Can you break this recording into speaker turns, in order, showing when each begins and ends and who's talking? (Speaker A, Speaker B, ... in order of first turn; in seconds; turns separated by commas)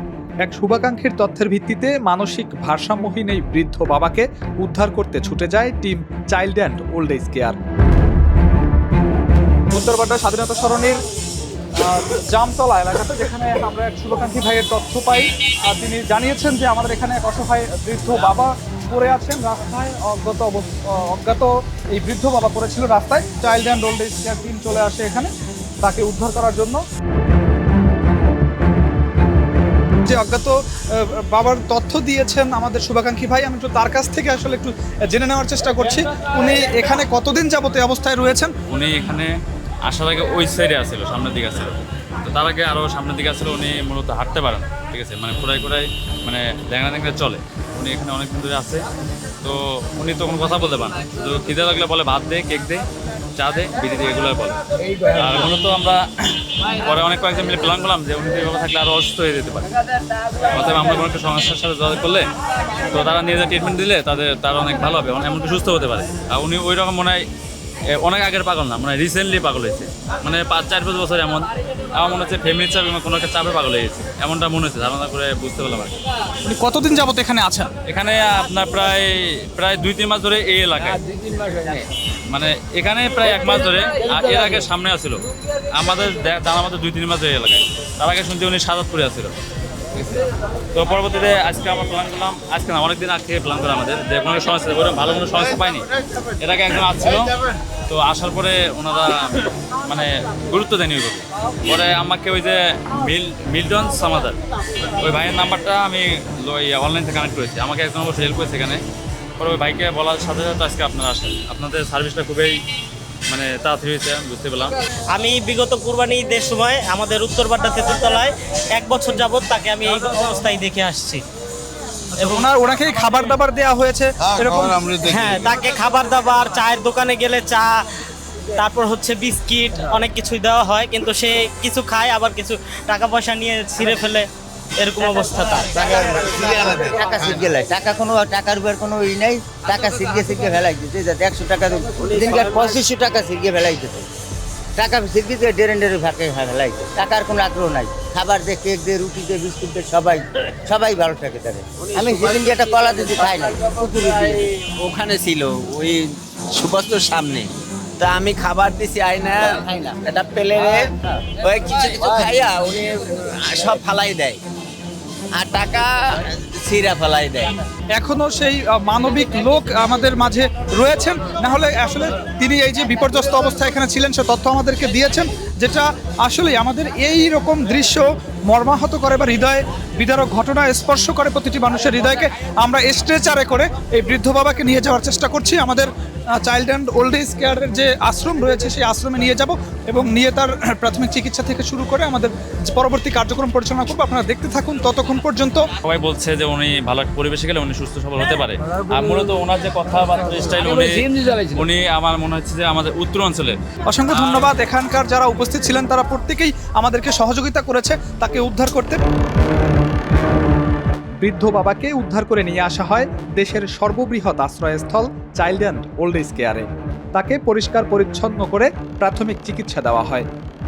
Speaker A: 0.5-7.6, Speaker A: 9.7-11.0, Speaker A: 11.8-25.3, Speaker A: 25.8-26.8, Speaker A: 30.0-38.5, Speaker B: 38.7-39.3, Speaker B: 39.8-48.8, Speaker B: 49.4-52.8, Speaker B: 53.4-59.7, Speaker B: 60.5-62.3, Speaker B: 62.9-67.2, Speaker B: 67.9-75.9, Speaker A: 76.4-77.7, Speaker B: 77.8-81.0, Speaker B: 81.8-85.2, Speaker B: 85.7-89.3, Speaker B: 89.9-90.2, Speaker B: 90.7-95.9, Speaker B: 96.4-104.4, Speaker B: 105.0-108.8, Speaker B: 109.4-112.6, Speaker B: 113.3-114.7, Speaker C: 115.1-121.2, Speaker A: 122.2-125.1, Speaker C: 125.0-127.7, Speaker C: 128.6-135.7, Speaker D: 135.7-144.1, Speaker D: 144.8-154.5, Speaker E: 154.5-164.4, Speaker D: 159.6-159.9, Speaker E: 165.3-167.5, Speaker A: 167.9-185.9, Speaker A: 186.4-195.6, Speaker B: 195.8-204.5, Speaker A: 203.9-209.0, Speaker A: 211.2-220.2